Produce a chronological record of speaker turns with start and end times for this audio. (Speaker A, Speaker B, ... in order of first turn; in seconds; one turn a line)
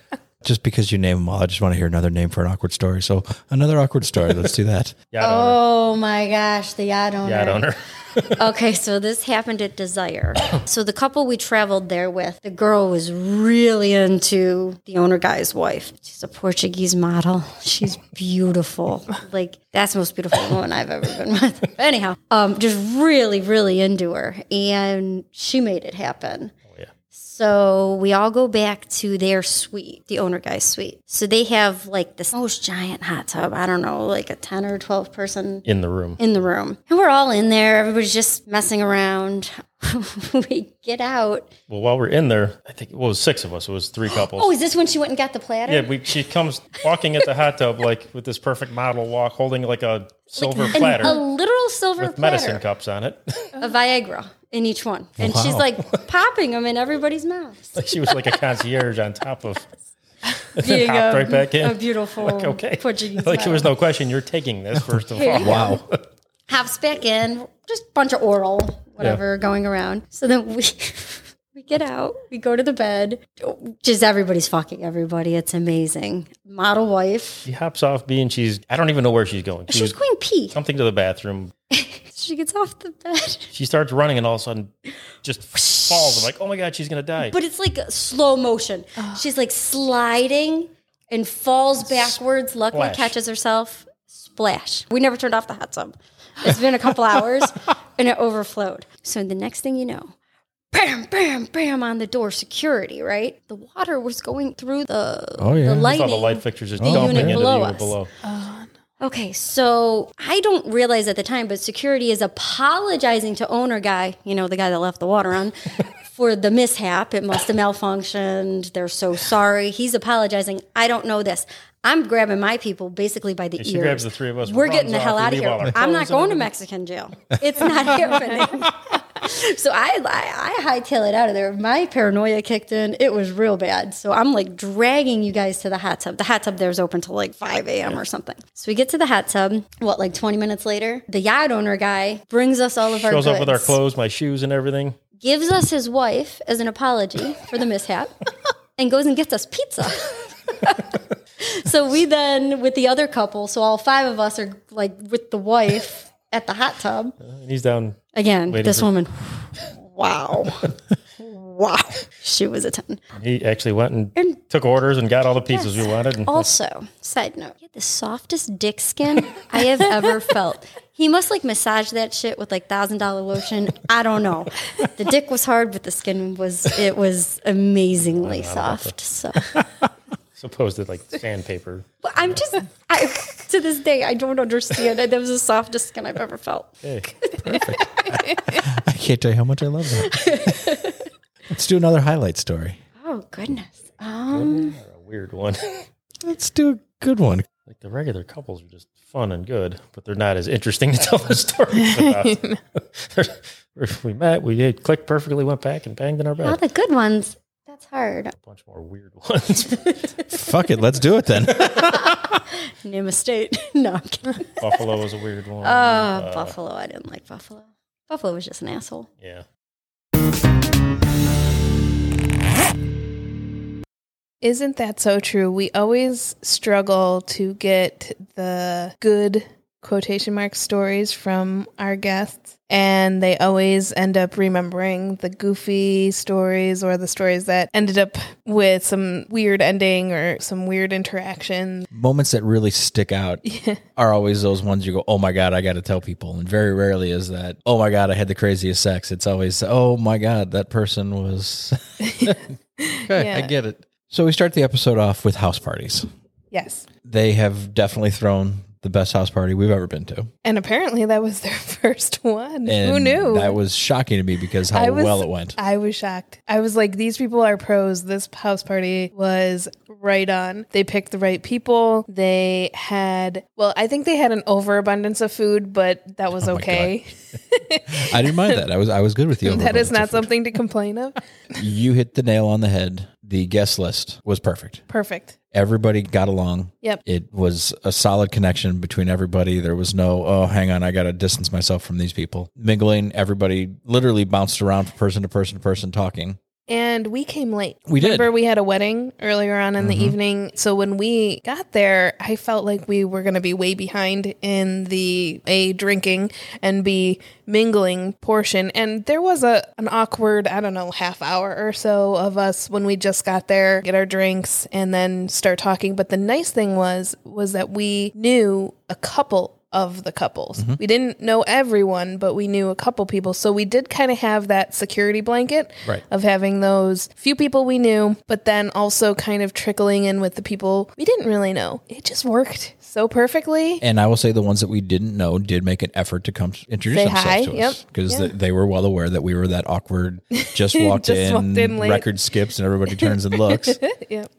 Speaker A: 0.4-5.0
Speaker B: 5.1-5.6
Speaker C: 5.2-7.6
Speaker B: 7.2-8.4
Speaker C: 8.3-26.5
Speaker C: 27.1-35.6
Speaker B: 35.6-36.2
Speaker C: 36.2-41.5
Speaker B: 41.7-44.5
Speaker C: 44.1-45.9
Speaker B: 45.7-51.2
Speaker C: 50.4-52.6
Speaker B: 52.0-53.5
Speaker C: 53.6-58.1
Speaker A: 55.2-55.7
Speaker B: 57.8-59.6
Speaker B: 60.5-66.0
Speaker C: 60.6-63.7
Speaker C: 65.1-65.8
Speaker A: 65.4-65.8
Speaker C: 66.5-77.5
Speaker B: 77.5-80.0
Speaker C: 79.7-80.6
Speaker B: 80.5-81.5
Speaker C: 81.7-83.5
Speaker B: 83.5-84.7
Speaker B: 85.2-87.3
Speaker C: 85.5-86.3
Speaker C: 87.2-100.1
Speaker B: 92.7-93.1
Speaker C: 100.7-108.0
Speaker A: 105.4-105.9
Speaker B: 105.8-108.1
Speaker A: 106.8-107.4
Speaker D: 108.2-108.7
Speaker C: 109.0-115.5
Speaker C: 116.1-143.8
Speaker B: 123.6-126.5
Speaker B: 143.0-145.0
Speaker C: 145.2-148.1
Speaker C: 148.8-157.2
Speaker B: 157.2-158.9
Speaker C: 158.1-163.0
Speaker B: 163.2-166.5
Speaker C: 165.5-179.6
Speaker B: 178.0-178.9
Speaker B: 180.4-182.4
Speaker C: 182.0-187.8
Speaker B: 186.8-187.1
Speaker A: 187.4-190.7
Speaker C: 190.0-191.0
Speaker A: 191.5-192.8
Speaker C: 193.0-194.8
Speaker B: 194.3-195.7
Speaker A: 196.2-197.5
Speaker B: 197.7-206.6
Speaker D: 201.9-202.6
Speaker C: 206.4-208.3
Speaker B: 208.4-210.1
Speaker A: 210.3-212.4
Speaker C: 211.8-214.8
Speaker B: 214.6-216.5
Speaker C: 215.6-219.1
Speaker D: 224.4-241.9
Speaker A: 241.9-243.4
Speaker D: 243.4-243.8
Speaker A: 243.9-252.4
Speaker D: 252.1-253.5
Speaker A: 253.0-256.1
Speaker D: 256.5-256.9
Speaker A: 257.0-260.3
Speaker D: 260.4-263.6
Speaker A: 262.6-265.6
Speaker D: 264.7-278.6
Speaker A: 276.4-276.9
Speaker A: 277.9-280.3
Speaker D: 279.4-281.2
Speaker A: 281.6-284.8
Speaker D: 284.9-285.4
Speaker A: 285.5-296.4
Speaker D: 296.7-333.8
Speaker A: 297.9-298.3
Speaker A: 299.8-300.2
Speaker A: 333.8-343.8
Speaker D: 336.9-338.3
Speaker D: 340.4-342.1
Speaker D: 342.9-344.3